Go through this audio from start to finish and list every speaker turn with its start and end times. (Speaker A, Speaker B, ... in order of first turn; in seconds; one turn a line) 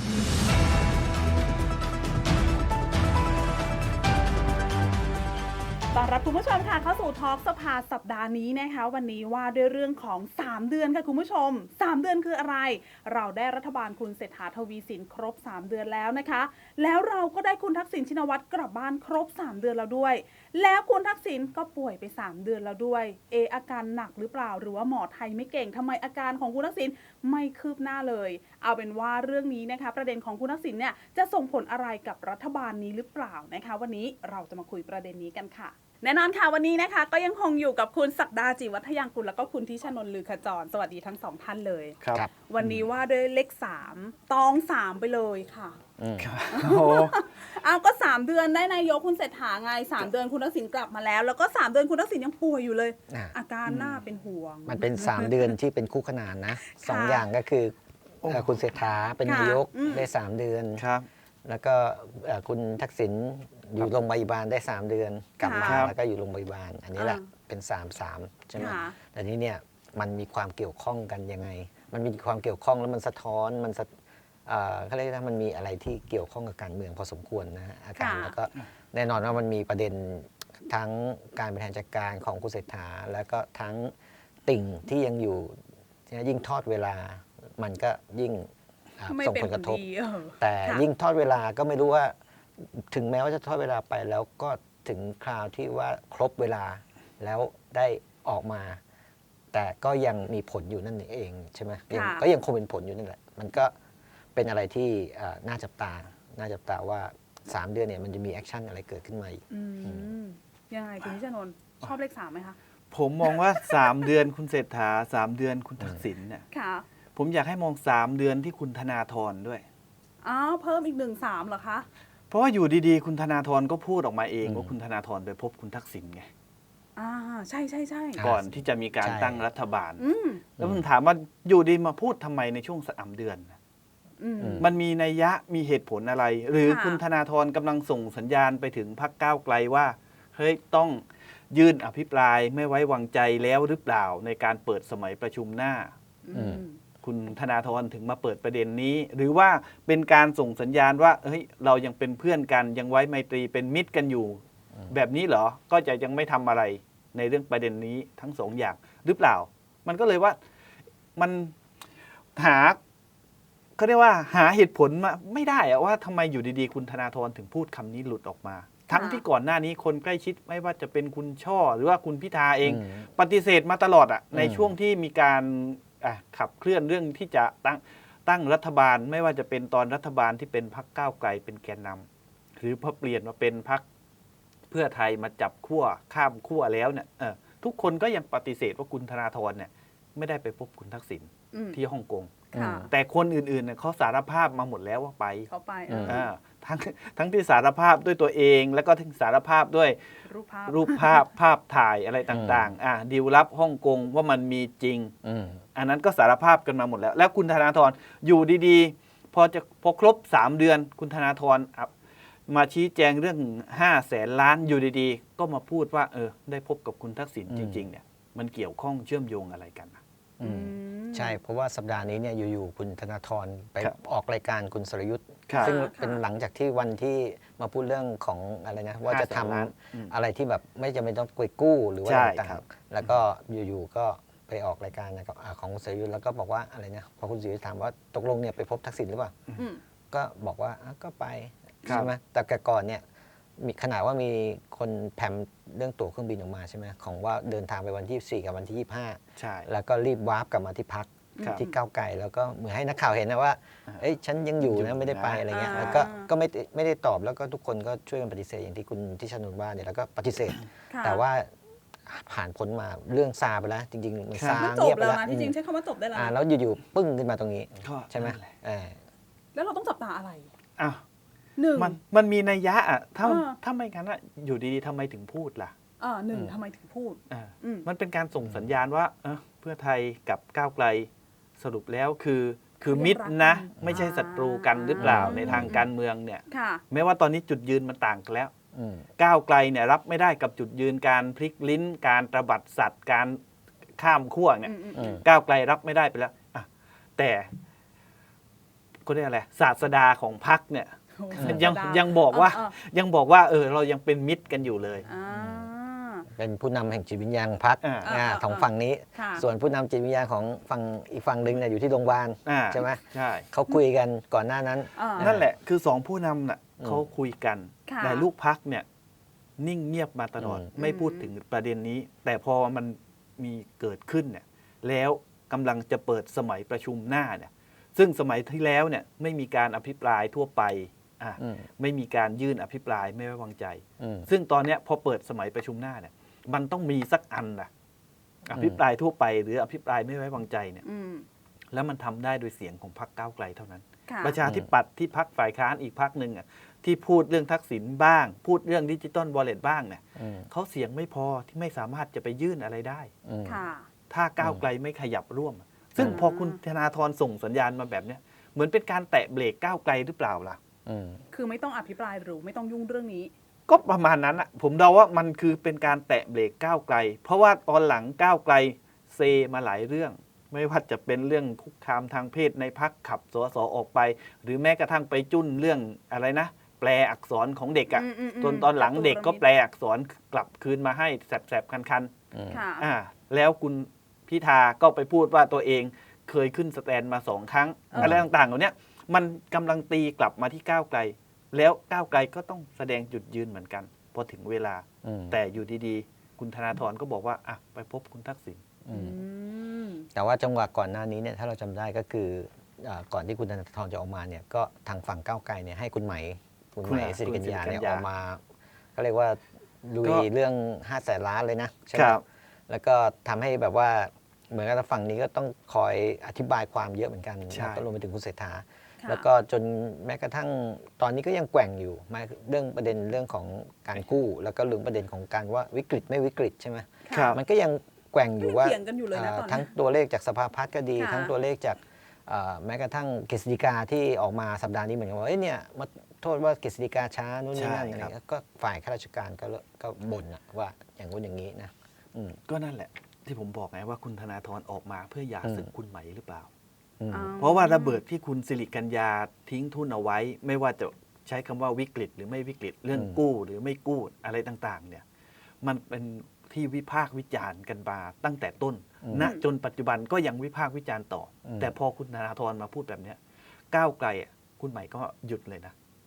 Speaker A: 5.9-45.8
Speaker B: 42.0-42.8
Speaker C: 46.0-46.3
Speaker B: 46.2-47.2
Speaker A: 46.5-55.5
Speaker C: 53.1-53.3
Speaker B: 53.7-54.0
Speaker C: 54.7-60.9
Speaker A: 56.6-57.3
Speaker B: 58.2-58.6
Speaker A: 59.2-60.1
Speaker B: 60.8-61.1
Speaker C: 61.5-73.9
Speaker A: 65.4-65.8
Speaker B: 65.6-65.9
Speaker A: 67.0-67.3
Speaker A: 68.6-69.0
Speaker C: 74.5-83.9
Speaker A: 78.0-78.4
Speaker C: 84.5-89.8
Speaker A: 89.1-90.9
Speaker C: 90.4-98.8
Speaker C: 99.5-103.7
Speaker A: 101.9-102.3
Speaker C: 104.3-110.1
Speaker A: 109.5-112.6
Speaker B: 112.9-116.5
Speaker A: 113.3-113.9
Speaker A: 116.5-116.9
Speaker B: 117.1-119.7
Speaker A: 120.2-121.9
Speaker B: 122.3-126.3
Speaker C: 124.5-124.7
Speaker A: 127.0-128.2
Speaker C: 128.2-129.4
Speaker B: 128.2-130.0
Speaker A: 130.0-130.4
Speaker C: 130.6-130.8
Speaker B: 130.6-133.6
Speaker A: 134.2-134.7
Speaker C: 134.4-134.7
Speaker B: 134.6-145.9
Speaker A: 136.6-137.0
Speaker A: 146.2-146.8
Speaker C: 146.3-146.6
Speaker B: 147.0-160.4
Speaker B: 161.2-161.5
Speaker B: 162.3-162.8
Speaker B: 163.8-182.1
Speaker A: 168.9-169.2
Speaker C: 172.6-173.1
Speaker C: 174.3-174.7
Speaker B: 182.6-183.8
Speaker B: 184.7-195.5
Speaker A: 191.5-191.8
Speaker A: 192.5-192.9
Speaker C: 192.5-192.9
Speaker A: 195.5-196.3
Speaker C: 195.9-196.2
Speaker B: 196.0-200.0
Speaker A: 200.2-201.2
Speaker B: 200.7-205.1
Speaker C: 202.3-202.7
Speaker C: 205.2-205.6
Speaker B: 205.7-211.9
Speaker B: 212.5-220.0
Speaker C: 217.5-217.9
Speaker A: 220.4-221.4
Speaker C: 220.4-239.4
Speaker B: 225.5-225.8
Speaker A: 225.6-226.2
Speaker B: 229.1-230.1
Speaker B: 232.0-233.2
Speaker A: 239.6-239.8
Speaker C: 240.1-243.0
Speaker B: 241.8-242.1
Speaker C: 243.6-261.5
Speaker B: 249.3-249.7
Speaker A: 251.4-251.8
Speaker B: 254.6-256.1
Speaker A: 255.5-256.3
Speaker A: 260.9-261.2
Speaker C: 262.1-265.5
Speaker B: 264.3-264.7
Speaker A: 264.6-266.4
Speaker C: 266.1-269.0
Speaker B: 267.8-268.5
Speaker A: 269.5-270.5
Speaker A: 271.6-272.0
Speaker B: 271.8-275.7
Speaker A: 273.2-273.6
Speaker A: 276.0-277.9
Speaker B: 277.3-288.5
Speaker A: 282.9-285.9
Speaker C: 285.0-285.8
Speaker A: 286.5-286.8
Speaker C: 288.7-289.1
Speaker B: 289.2-293.4
Speaker B: 294.0-297.5
Speaker A: 294.6-295.2
Speaker C: 294.9-295.2
Speaker B: 299.1-305.1
Speaker A: 301.2-302.8
Speaker C: 301.4-301.6
Speaker A: 305.1-306.3
Speaker C: 305.3-305.7
Speaker C: 306.3-315.5
Speaker B: 307.8-308.1
Speaker A: 308.0-309.5
Speaker B: 312.4-313.5
Speaker A: 315.0-315.3
Speaker B: 315.2-318.9
Speaker A: 317.9-318.3
Speaker B: 319.6-337.7
Speaker C: 320.4-320.7
Speaker A: 320.8-321.3
Speaker C: 331.4-331.7
Speaker C: 334.0-334.3
Speaker B: 338.5-340.8
Speaker C: 338.5-338.8
Speaker A: 340.8-341.2
Speaker B: 341.7-353.1
Speaker A: 344.1-344.4
Speaker C: 350.2-350.5
Speaker C: 353.2-353.6
Speaker A: 353.4-353.9
Speaker B: 354.1-360.6
Speaker C: 356.0-356.3
Speaker A: 356.0-356.6
Speaker C: 360.9-361.2
Speaker A: 361.3-363.3
Speaker B: 363.7-382.1
Speaker A: 377.9-379.4
Speaker C: 382.3-382.6
Speaker A: 382.5-382.9
Speaker B: 382.8-398.7
Speaker A: 387.9-388.2
Speaker C: 388.0-388.2
Speaker C: 395.0-395.4
Speaker C: 398.9-399.2
Speaker A: 398.9-400.1
Speaker C: 400.1-408.4
Speaker B: 406.8-408.1
Speaker C: 409.0-442.4
Speaker B: 410.0-410.3
Speaker B: 411.9-412.2
Speaker B: 417.5-417.9
Speaker A: 419.0-419.2
Speaker A: 427.1-427.4
Speaker B: 427.1-427.4
Speaker A: 428.4-429.7
Speaker A: 431.0-431.3
Speaker B: 437.5-438.1
Speaker B: 442.5-446.5
Speaker C: 445.4-445.7
Speaker C: 447.0-447.3
Speaker A: 447.1-448.0
Speaker B: 447.4-455.0
Speaker C: 452.9-453.2
Speaker B: 455.6-463.2
Speaker C: 459.0-459.3
Speaker A: 459.1-459.5
Speaker C: 461.5-461.7
Speaker B: 463.7-465.7